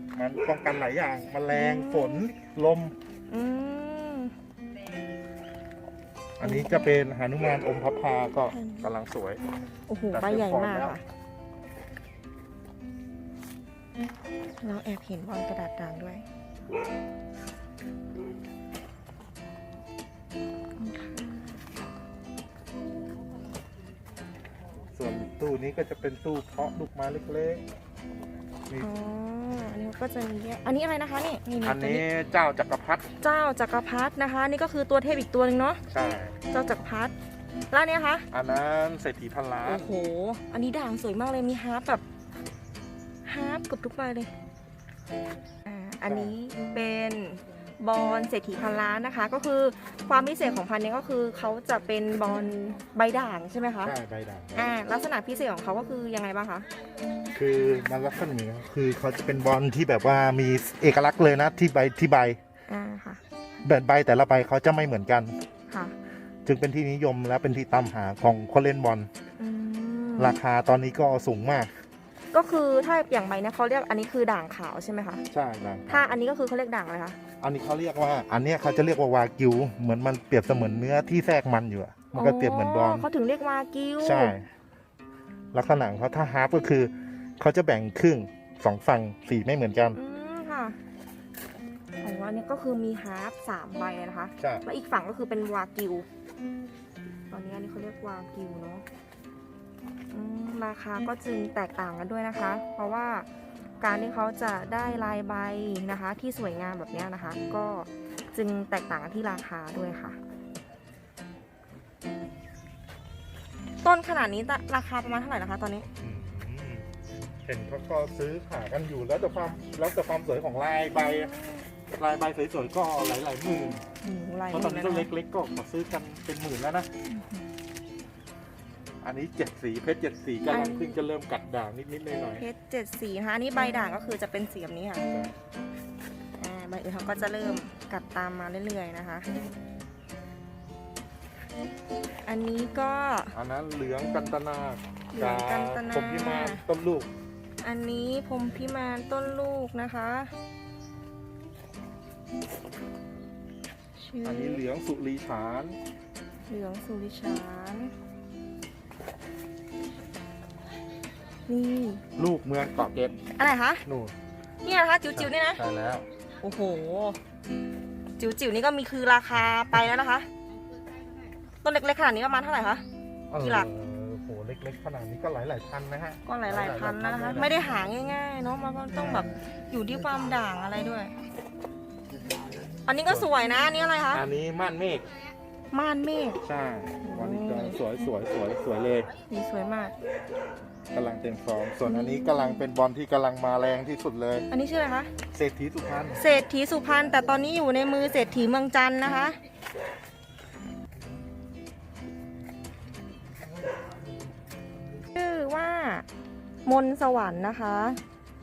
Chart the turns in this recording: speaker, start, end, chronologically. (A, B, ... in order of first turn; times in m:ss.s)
0:00.1-0:03.0 A
0:01.5-0:02.2 B
0:03.3-0:04.3 B
0:06.4-0:09.4 A
0:06.4-0:06.9 B
0:08.5-0:08.9 B
0:09.9-0:11.0 B
0:10.1-0:11.0 A
0:14.6-0:16.2 B
0:20.8-0:21.6 B
0:24.9-0:27.6 A
0:28.8-0:32.0 B
0:31.6-0:33.0 A
0:33.2-0:35.8 B
0:35.9-0:36.4 A
0:36.5-0:37.1 B
0:37.7-0:38.3 B
0:38.3-0:39.9 A
0:39.6-0:42.0 B
0:43.2-0:44.3 B
0:45.6-0:54.0 B
0:46.1-0:46.4 A
0:53.8-0:54.7 A
0:54.6-0:56.7 B
0:57.3-1:02.4 A
1:02.7-1:03.2 B
1:03.6-1:05.4 A
1:05.7-1:05.9 B
1:06.4-1:09.1 A
1:09.4-1:10.4 B
1:10.2-1:11.7 A
1:12.3-1:15.2 B
1:15.3-1:16.2 A
1:15.9-1:17.2 B
1:17.4-1:23.1 A
1:22.1-1:24.4 B
1:24.0-1:24.5 A
1:25.5-1:30.0 A
1:29.9-1:30.8 B
1:32.0-1:36.1 B
1:37.3-1:38.8 B
1:40.1-1:43.3 B
1:43.8-1:50.2 B
1:53.8-1:55.9 B
1:55.9-1:56.9 A
1:57.4-2:01.3 A
2:01.0-2:01.6 B
2:02.0-2:03.8 A
2:04.0-2:05.1 B
2:04.5-2:06.9 A
2:07.1-2:07.5 B
2:09.0-2:12.4 A
2:10.5-2:11.0 B
2:12.4-2:15.1 B
2:15.1-2:15.4 A
2:16.4-2:19.3 B
2:22.3-2:23.4 B
2:23.3-2:27.1 A
2:25.1-2:26.6 B
2:27.6-2:30.3 B
2:34.0-2:34.6 B
2:34.2-2:35.8 A
2:36.5-2:37.9 B
2:41.5-2:42.0 B
2:42.2-2:43.2 A
2:43.4-2:43.8 B
2:43.8-2:44.1 A
2:44.6-2:45.6 B
2:45.1-2:46.1 A
2:46.4-2:47.2 B
2:48.2-2:50.3 B
2:49.4-2:49.8 A
2:51.6-2:52.8 B
2:53.3-2:57.7 A
2:53.4-2:53.7 B
2:56.2-3:01.1 B
2:59.0-2:59.4 A
3:02.8-3:04.2 B
3:04.1-3:05.1 A
3:05.7-3:06.4 B
3:06.4-3:09.1 A
3:07.0-3:07.8 B
3:09.3-3:10.0 B
3:10.9-3:14.5 A
3:11.8-3:12.6 B
3:14.5-3:15.1 B
3:15.3-3:16.2 A
3:16.2-3:19.4 B
3:25.2-3:26.0 B
3:26.7-3:28.0 B